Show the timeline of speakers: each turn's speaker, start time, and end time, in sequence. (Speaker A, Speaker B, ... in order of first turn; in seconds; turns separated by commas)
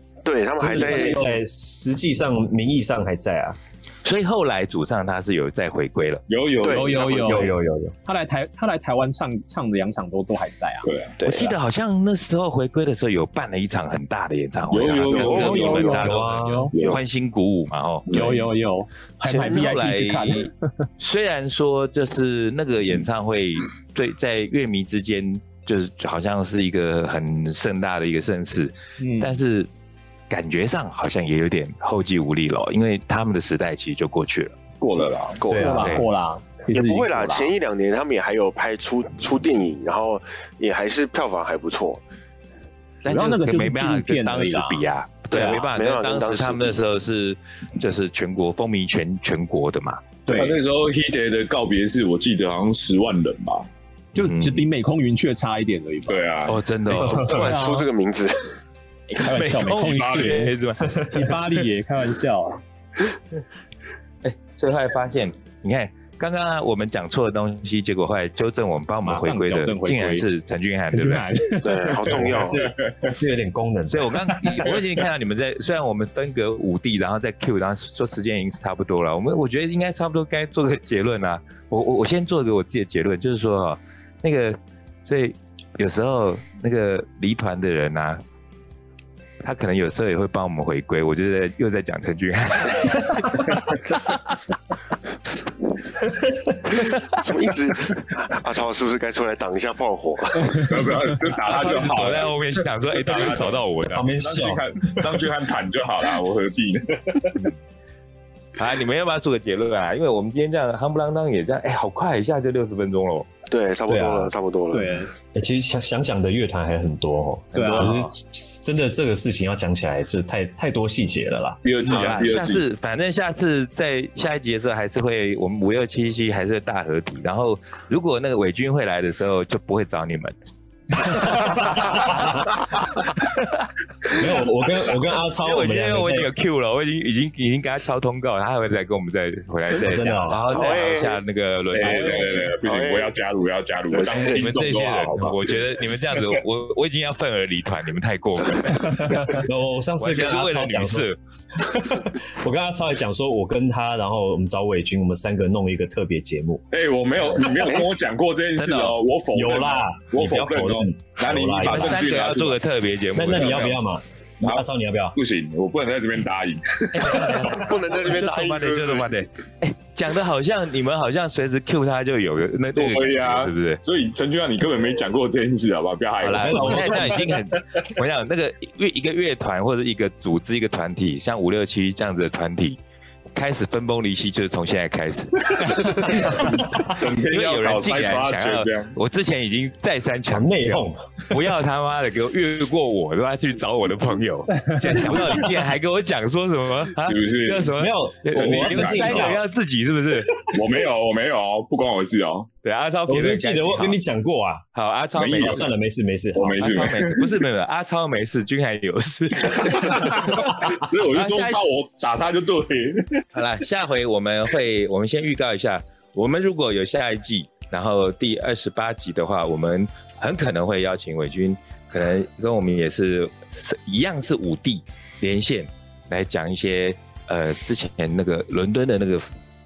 Speaker A: 0.2-1.3, Speaker B: 0.6-3.6, Speaker C: 4.0-6.2, Speaker D: 6.3-7.4, Speaker A: 6.6-7.5, Speaker E: 6.6-10.9, Speaker B: 7.2-7.9, Speaker D: 10.8-11.5, Speaker C: 11.2-16.2, Speaker D: 14.7-17.0, Speaker A: 15.1-16.0, Speaker E: 15.1-16.7, Speaker B: 16.0-16.7, Speaker C: 16.9-18.3, Speaker D: 18.1-18.5, Speaker E: 18.1-20.5, Speaker C: 19.2-29.7, Speaker E: 29.0-29.4, Speaker C: 30.3-34.6, Speaker D: 34.8-35.4, Speaker A: 35.4-35.8, Speaker B: 35.5-36.0, Speaker E: 35.5-37.5, Speaker C: 35.8-36.0, Speaker A: 36.7-42.0, Speaker E: 43.0-45.6, Speaker C: 43.0-50.3, Speaker A: 45.3-46.8, Speaker E: 50.3-50.6, Speaker D: 50.3-53.7, Speaker C: 54.1-54.7, Speaker E: 54.1-56.3, Speaker D: 56.1-56.6, Speaker C: 56.5-57.5, Speaker E: 57.0-57.9, Speaker A: 57.0-58.4, Speaker E: 59.1-62.6, Speaker C: 59.2-61.4, Speaker D: 59.6-60.4, Speaker C: 64.2-71.4, Speaker E: 69.0-70.3, Speaker E: 70.9-71.8, Speaker A: 71.6-72.7, Speaker B: 72.1-74.7, Speaker D: 72.4-73.1, Speaker C: 73.9-88.2, Speaker C: 89.4-94.0, Speaker B: 96.0-96.7, Speaker A: 97.1-100.7, Speaker D: 100.6-102.4, Speaker C: 101.4-104.1, Speaker D: 103.0-103.6, Speaker B: 103.8-105.0, Speaker D: 104.2-107.4, Speaker C: 108.6-113.3, Speaker A: 113.5-115.0, Speaker B: 113.9-114.3, Speaker E: 114.7-115.1, Speaker B: 115.3-121.6, Speaker E: 117.5-118.0, Speaker C: 117.5-118.1, Speaker D: 121.6-122.7, Speaker C: 121.9-130.3, Speaker C: 131.0-132.5, Speaker B: 131.3-132.4, Speaker C: 133.1-134.3, Speaker B: 134.0-136.3, Speaker C: 135.4-142.5, Speaker B: 139.7-140.4, Speaker A: 140.5-141.2, Speaker D: 141.7-145.6, Speaker A: 142.6-143.1, Speaker A: 143.9-144.5, Speaker C: 144.3-149.3, Speaker B: 149.3-156.6, Speaker C: 150.0-151.2, Speaker D: 156.7-162.6, Speaker C: 158.6-159.0, Speaker B: 159.3-162.0, Speaker C: 161.6-163.8, Speaker B: 163.1-165.2, Speaker D: 164.4-167.3, Speaker C: 166.9-173.8, Speaker A: 167.5-169.1, Speaker D: 172.8-177.2, Speaker C: 176.2-182.8, Speaker B: 176.4-177.3, Speaker C: 183.3-186.5, Speaker B: 186.1-186.8, Speaker D: 186.2-188.9, Speaker C: 187.2-200.5, Speaker B: 190.3-191.4, Speaker D: 197.0-197.8, Speaker B: 197.8-199.4, Speaker D: 198.3-199.4, Speaker D: 200.5-202.5, Speaker C: 202.6-204.0, Speaker B: 203.1-204.6, Speaker C: 204.7-205.7, Speaker D: 205.2-205.6, Speaker B: 205.4-207.1, Speaker D: 206.3-207.1, Speaker C: 206.5-211.6, Speaker D: 209.7-213.2, Speaker C: 213.3-229.3